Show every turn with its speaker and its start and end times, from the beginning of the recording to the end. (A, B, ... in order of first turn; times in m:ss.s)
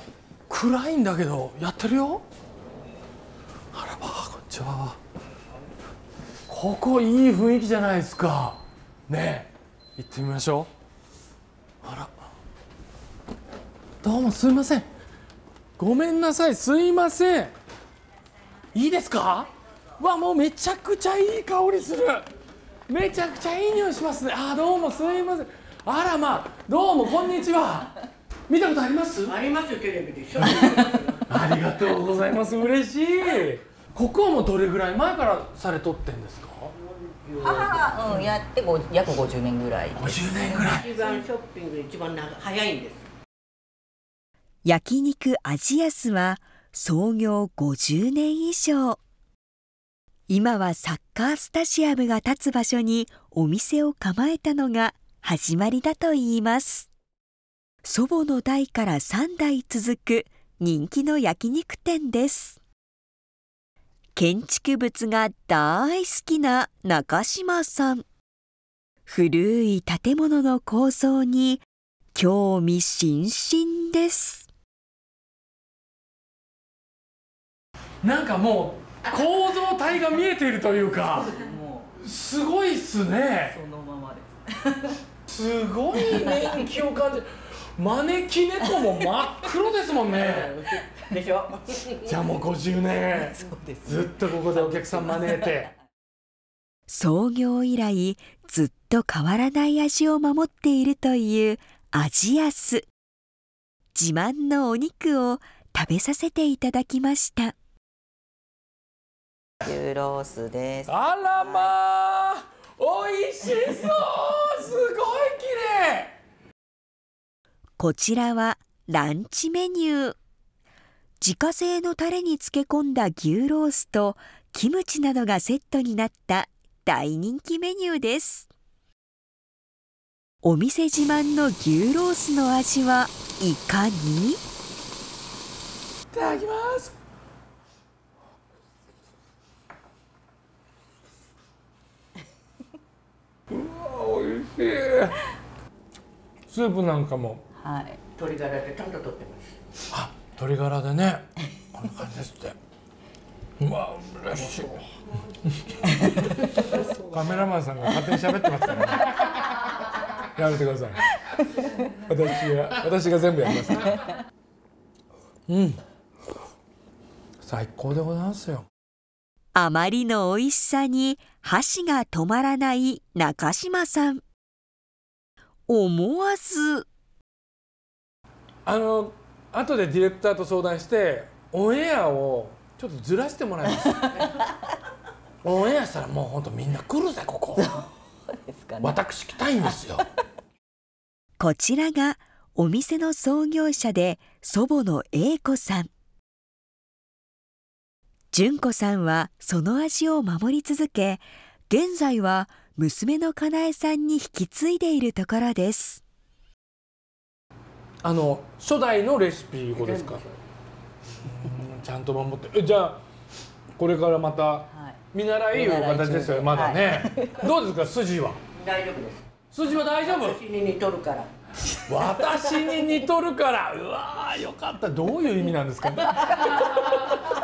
0:00.5-0:02.2 A
0:03.7-0:05.0 A
0:06.5-0:10.7 A
0:11.8-0:12.1 A
0:14.0-0:14.9 A
0:15.8-0:17.5 A
0:18.7-0:22.3 A
0:22.9-0:27.9 A
0:28.5-0:29.4 A
0:29.2-0:31.6 B
0:30.4-0:36.7 A
0:36.7-0:38.0 B
0:37.4-0:40.5 C
0:40.0-0:40.9 A
0:40.4-0:43.1 B
0:44.6-0:49.0 D
0:50.3-0:56.9 D
0:57.8-1:02.6 D
1:04.2-1:08.0 D
1:09.0-1:11.6 D
1:12.1-1:14.5 D
1:18.0-1:21.4 A
1:21.1-1:21.9 C
1:22.0-1:23.6 A
1:23.4-1:25.0 C
1:25.3-1:30.6 A
1:26.2-1:26.5 C
1:30.0-1:32.2 B
1:32.0-1:35.7 A
1:33.2-1:34.1 C
1:34.6-1:35.0 B
1:36.9-1:42.9 D
1:43.9-1:47.5 D
1:49.6-1:51.7 C
1:50.9-1:56.1 A
1:57.8-2:00.2 D
2:01.2-2:08.5 D
2:10.4-2:14.4 D
2:16.1-2:16.9 A
2:23.5-2:25.2 A
2:26.5-2:27.4 A
2:27.5-2:28.0 C
2:28.2-2:29.6 B
2:29.9-2:32.6 A
2:33.6-2:34.8 A
2:34.4-2:34.8 B
2:36.9-2:39.2 A
2:40.3-2:41.0 A
2:41.8-2:44.0 A
2:45.5-2:45.8 A
2:47.4-2:48.7 A
2:49.5-2:54.2 D
2:55.7-2:56.9 D
2:58.6-3:04.2 A
3:04.0-3:04.4 C
3:05.4-3:07.8 A
3:07.6-3:09.0 C
3:08.8-3:10.0 A
3:11.4-3:15.9 D
3:18.3-3:26.0 D
3:28.0-3:30.2 A
3:29.7-3:30.3 B
3:31.2-3:33.0 A
3:33.8-3:38.4 A
3:34.7-3:35.0 C
3:35.5-3:37.4 C
3:38.5-3:39.3 B
3:39.5-3:40.4 A
3:40.0-3:41.3 B
3:41.8-3:47.0 A